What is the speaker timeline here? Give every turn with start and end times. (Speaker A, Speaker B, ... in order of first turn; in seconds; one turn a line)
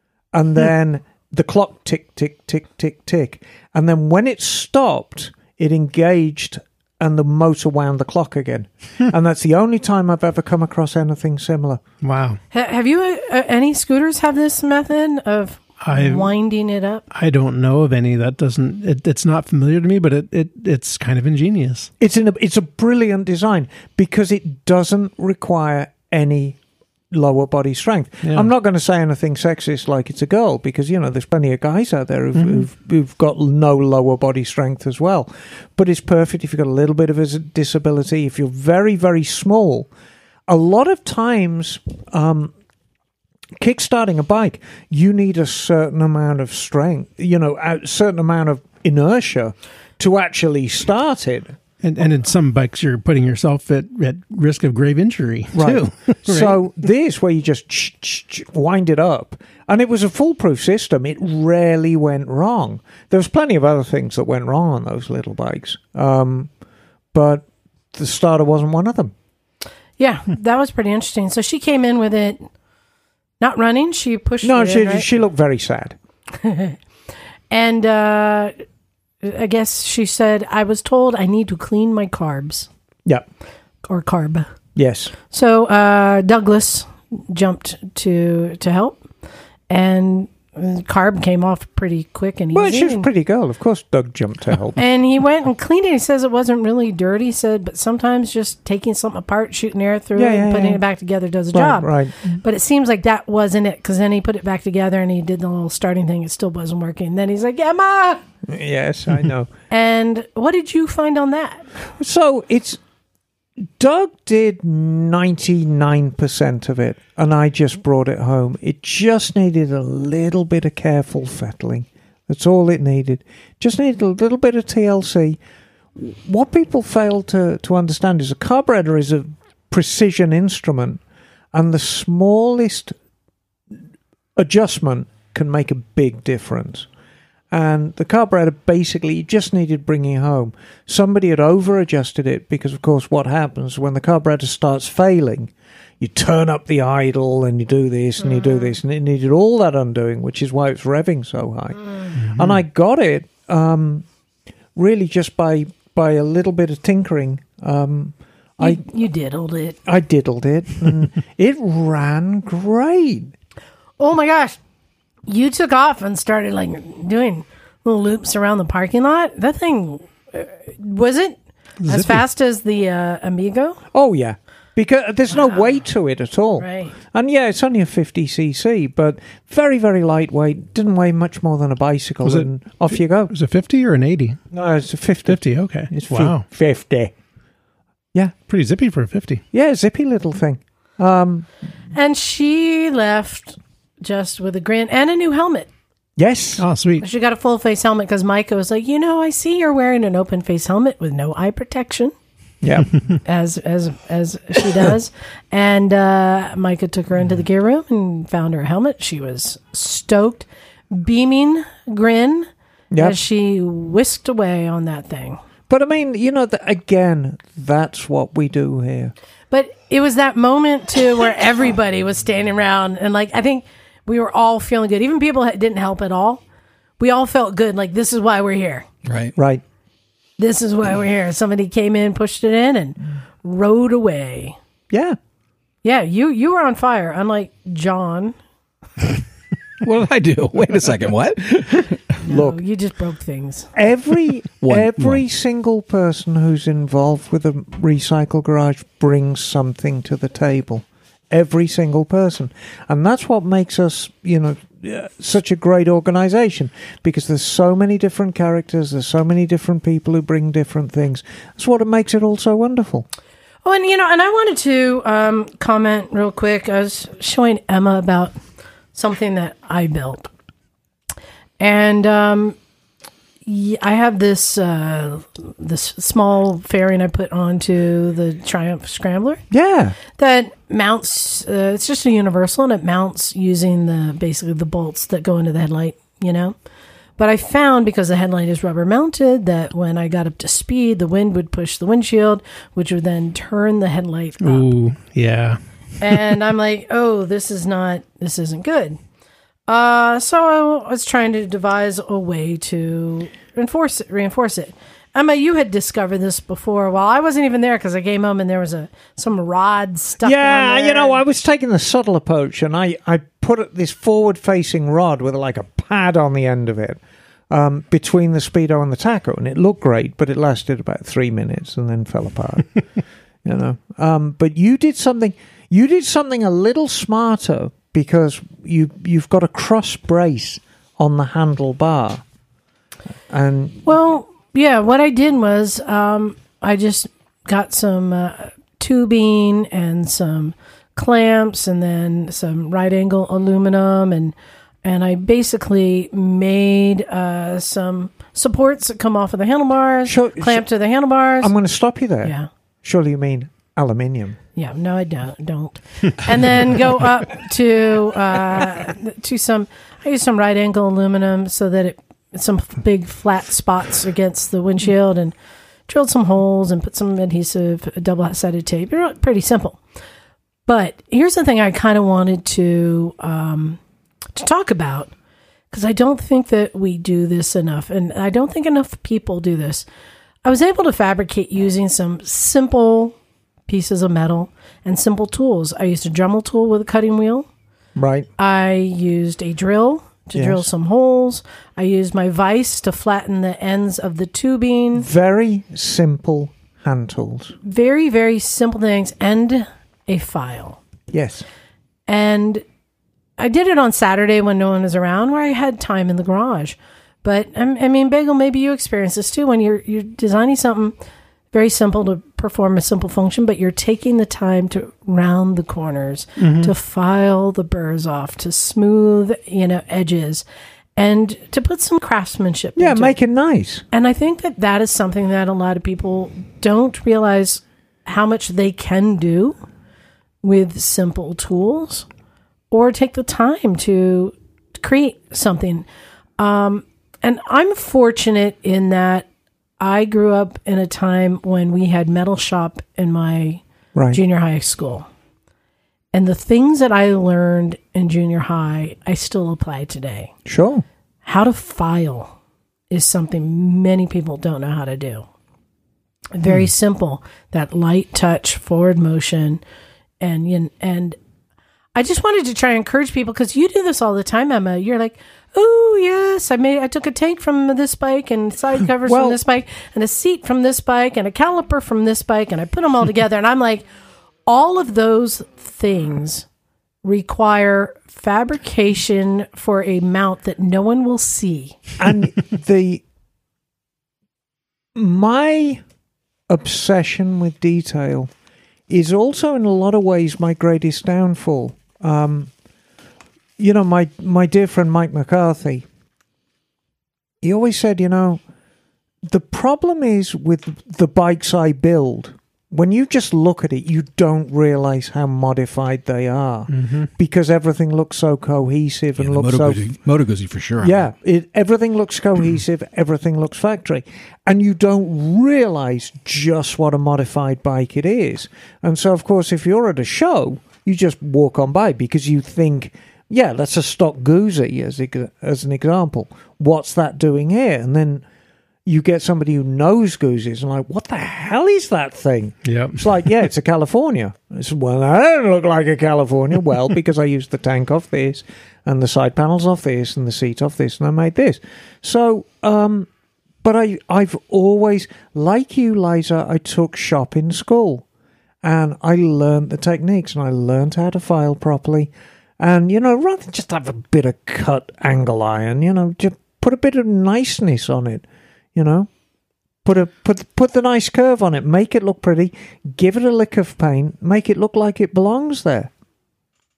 Speaker A: 0.3-11.8
Speaker B: 12.0-12.4
Speaker C: 12.5-17.0
Speaker B: 15.8-16.3
Speaker B: 17.1-21.9
Speaker A: 22.0-26.6
Speaker A: 27.1-39.9
Speaker B: 28.2-28.5
Speaker B: 32.3-32.6
Speaker A: 40.5-42.5
Speaker A: 43.6-51.5
Speaker B: 51.8-56.6
Speaker A: 55.5-66.5
Speaker A: 67.1-69.1
Speaker C: 70.0-72.5
Speaker C: 73.4-75.1
Speaker A: 74.4-76.0
Speaker C: 76.4-76.8
Speaker C: 77.5-78.5
Speaker C: 79.2-82.7
Speaker C: 83.8-84.5
Speaker A: 84.8-85.1
Speaker C: 85.3-89.0
Speaker C: 89.7-93.1
Speaker A: 92.5-94.8
Speaker C: 94.8-108.2
Speaker A: 100.2-100.8
Speaker A: 101.5-102.2
Speaker A: 108.5-109.5
Speaker C: 109.7-111.7
Speaker A: 112.0-112.8
Speaker A: 113.6-125.4
Speaker A: 126.0-131.0
Speaker A: 131.5-132.9
Speaker A: 134.3-136.9
Speaker A: 137.5-154.1
Speaker B: 152.2-152.6
Speaker A: 154.7-158.8
Speaker C: 158.6-159.8
Speaker A: 159.8-163.3
Speaker C: 164.0-164.6
Speaker C: 165.3-173.8
Speaker B: 171.8-172.2
Speaker A: 173.9-183.3
Speaker C: 175.3-175.6
Speaker C: 176.6-176.9
Speaker B: 183.3-184.4
Speaker A: 184.5-187.1
Speaker B: 185.3-186.4
Speaker B: 188.5-189.4
Speaker A: 189.5-191.5
Speaker C: 191.9-195.7
Speaker A: 196.2-196.6
Speaker B: 196.6-197.0
Speaker C: 197.0-202.1
Speaker A: 202.6-202.9
Speaker C: 203.2-215.4
Speaker A: 212.9-213.2
Speaker A: 215.7-219.1
Speaker C: 219.5-226.4
Speaker C: 227.0-228.8
Speaker D: 229.0-229.3
Speaker A: 229.3-229.6
Speaker C: 230.4-234.6
Speaker A: 234.9-235.2
Speaker C: 235.8-238.3
Speaker D: 239.8-242.0
Speaker C: 242.2-243.7
Speaker A: 242.2-242.6
Speaker A: 243.7-263.1
Speaker D: 244.6-245.2
Speaker C: 263.6-268.3
Speaker C: 268.9-270.3
Speaker C: 271.6-272.6
Speaker C: 273.4-279.4
Speaker A: 279.5-280.0
Speaker C: 280.2-286.5
Speaker C: 287.2-294.7
Speaker B: 294.4-295.6
Speaker C: 296.0-299.0
Speaker C: 299.7-311.2
Speaker A: 310.2-322.7
Speaker A: 323.4-332.2
Speaker A: 333.3-333.9
Speaker C: 333.9-351.5
Speaker A: 350.0-350.6
Speaker A: 351.4-354.4
Speaker C: 352.2-352.5
Speaker C: 354.5-365.3
Speaker C: 365.9-369.8
Speaker C: 370.7-373.8
Speaker C: 374.3-375.1
Speaker C: 375.7-379.8
Speaker C: 380.4-383.1
Speaker C: 383.7-387.5
Speaker A: 387.9-388.3
Speaker C: 388.4-395.1
Speaker A: 390.3-390.7
Speaker A: 394.9-397.6
Speaker C: 397.6-400.8
Speaker A: 401.1-401.4
Speaker C: 402.1-402.6
Speaker C: 403.4-410.9
Speaker C: 411.5-420.4
Speaker B: 416.4-416.7
Speaker C: 420.9-423.1
Speaker A: 422.8-423.8
Speaker C: 423.9-429.6
Speaker C: 430.4-432.1
Speaker C: 432.7-435.8
Speaker C: 436.4-439.3
Speaker C: 439.8-445.1
Speaker A: 443.9-444.2
Speaker C: 446.1-450.3
Speaker A: 450.4-450.8
Speaker C: 451.2-452.3
Speaker C: 452.9-455.3
Speaker C: 456.3-459.6
Speaker C: 460.2-461.2
Speaker C: 461.9-473.8
Speaker A: 469.0-469.4
Speaker C: 474.4-476.5
Speaker C: 477.0-481.8
Speaker A: 482.0-483.0
Speaker A: 484.9-485.8
Speaker A: 486.5-488.3
Speaker A: 488.9-492.5
Speaker A: 493.6-495.9
Speaker A: 497.4-498.4
Speaker A: 499.2-509.8
Speaker B: 506.7-507.1
Speaker D: 509.2-511.0
Speaker A: 510.8-528.2
Speaker A: 528.9-543.1
Speaker B: 532.6-533.0
Speaker A: 543.6-548.0
Speaker A: 548.6-558.2
Speaker A: 558.7-559.1
Speaker A: 559.8-565.9